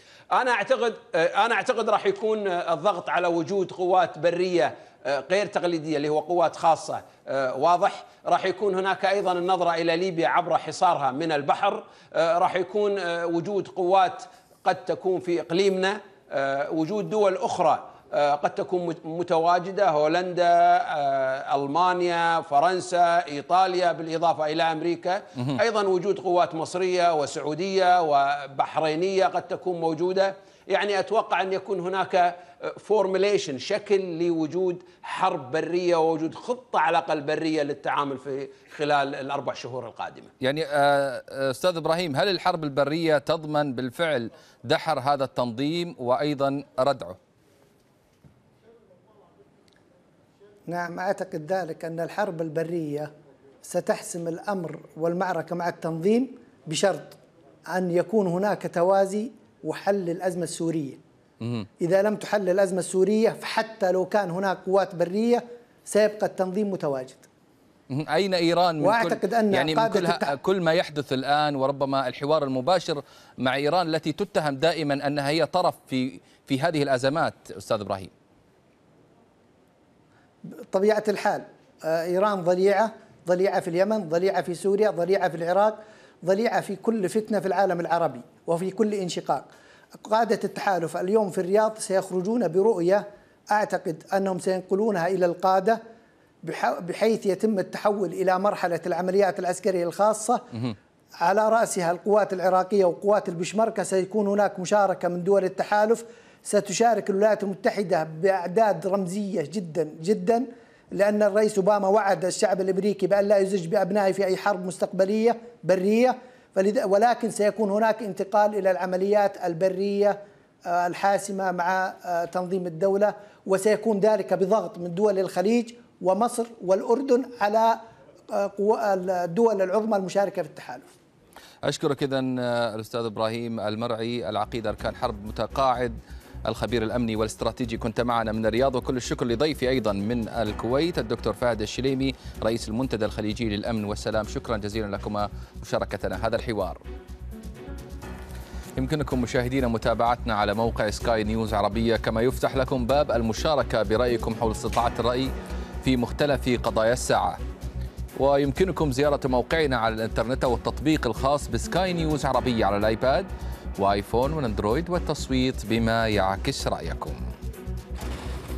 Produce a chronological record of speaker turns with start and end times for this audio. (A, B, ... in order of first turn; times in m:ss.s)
0:00.3-0:40.3 A
0:40.4-0:47.2 B
0:50.7-0:53.1 C
0:53.6-1:01.0 C
1:01.4-1:01.7 B
1:01.8-1:07.3 C
1:07.9-1:18.1 B
1:08.8-1:10.4 C
1:20.4-1:29.5 C
1:30.0-1:35.8 C
1:36.4-1:40.5 C
1:41.2-2:07.8 C
2:08.3-2:10.9 C
2:11.6-2:26.8 B
2:28.8-2:35.3 B
2:35.8-2:37.4 B
2:38.2-2:47.2 B